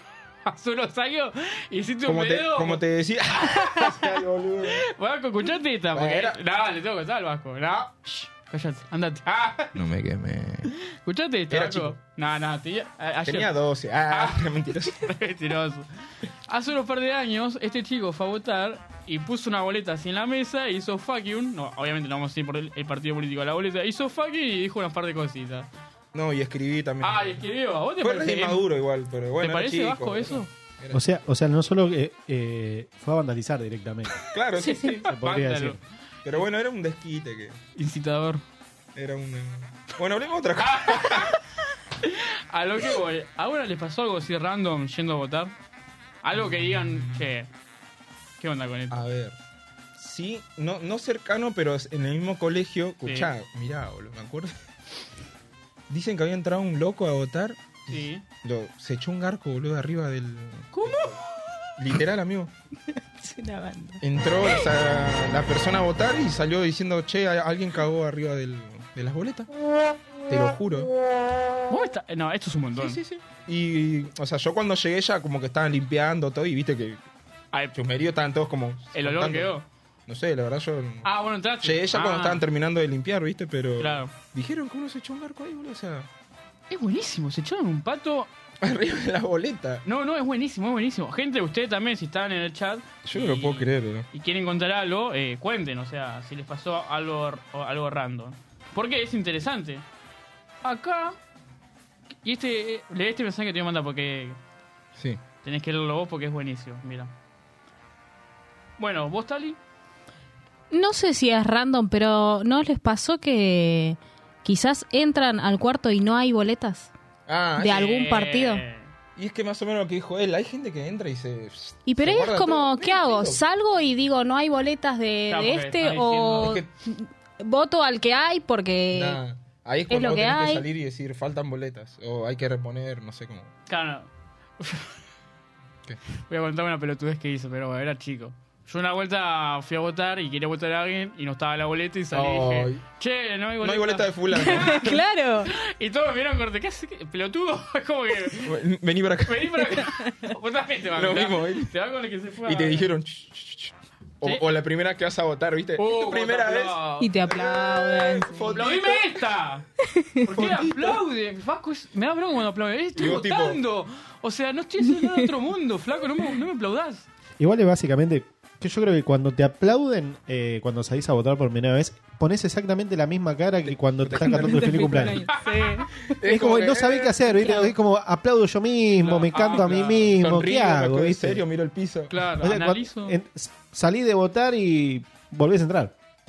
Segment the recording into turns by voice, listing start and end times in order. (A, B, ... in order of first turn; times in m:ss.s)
0:00.5-0:02.8 A
0:02.1-0:04.9 B
0:03.4-0:04.1 A
0:04.7-0:09.8 A
0:05.9-0:06.4 B
0:09.8-0:10.7 B
0:10.9-0:13.5 A
0:11.5-0:12.0 B
0:13.2-0:15.0 B
0:14.1-0:15.9 A
0:16.5-0:25.7 A
0:26.1-0:27.4 B
0:27.0-0:28.6 A
0:28.0-0:31.1 B
0:29.4-0:30.5 A
0:30.9-0:34.2 C
0:34.3-0:35.1 B
0:34.6-0:35.8 A
0:35.1-0:35.8 C
0:36.2-0:37.6 B
0:37.8-0:38.4 A
0:39.0-0:41.3 B
0:40.6-0:41.4 A
0:42.0-0:45.5 A
0:46.2-0:47.5 A
0:46.4-0:47.3 B
0:48.4-0:49.0 A
0:48.9-0:49.4 B
0:50.0-0:54.5 B
0:53.0-0:53.3 A
0:55.9-1:01.1 B
0:57.9-0:58.2 A
1:00.7-1:01.2 A
1:01.8-1:02.5 B
1:03.0-1:04.0 D
1:04.0-1:09.5 B
1:10.3-1:10.9 B
1:11.7-1:13.0 A
1:12.8-1:17.0 B
1:17.8-1:19.5 B
1:18.9-1:19.7 A
1:20.1-1:21.1 B
1:21.0-1:22.4 A
1:21.6-1:26.1 B
1:23.8-1:24.1 A
1:26.7-1:28.3 A
1:28.6-1:29.8 B
1:29.9-1:39.8 A
1:33.1-1:34.1 B
1:40.6-1:41.2 A
1:42.2-1:44.4 A
1:45.0-1:45.2 B
1:45.4-1:47.1 A
1:48.8-1:49.6 A
1:50.7-1:56.9 D
1:57.3-1:57.9 B
1:57.6-1:58.6 D
1:57.7-1:58.9 A
1:59.2-2:03.4 B
2:01.8-2:09.2 D
2:05.3-2:06.6 A
2:06.4-2:06.7 B
2:08.9-2:13.5 B
2:09.9-2:10.7 D
2:13.7-2:14.1 A
2:14.6-2:15.0 A
2:16.3-2:28.6 A
2:22.1-2:22.8 B
2:23.6-2:25.0 B
2:24.3-2:25.5 D
2:28.4-2:29.8 B
2:29.3-2:32.9 A
2:31.0-2:31.7 B
2:32.5-2:39.2 B
2:35.8-2:37.2 A
2:37.0-2:38.6 D
2:38.5-2:39.7 A
2:40.0-2:40.3 D
2:40.2-2:47.1 A
2:40.3-2:41.0 B
2:43.0-2:43.6 B
2:47.4-2:55.3 C
2:53.7-2:55.2 B
2:54.3-2:55.9 D
2:55.3-2:55.8 A
2:56.0-2:57.4 B
2:56.2-3:01.4 C
2:57.3-2:57.7 D
2:59.0-3:00.1 A
2:59.6-3:02.2 B
3:02.1-3:03.2 A
3:02.4-3:05.9 C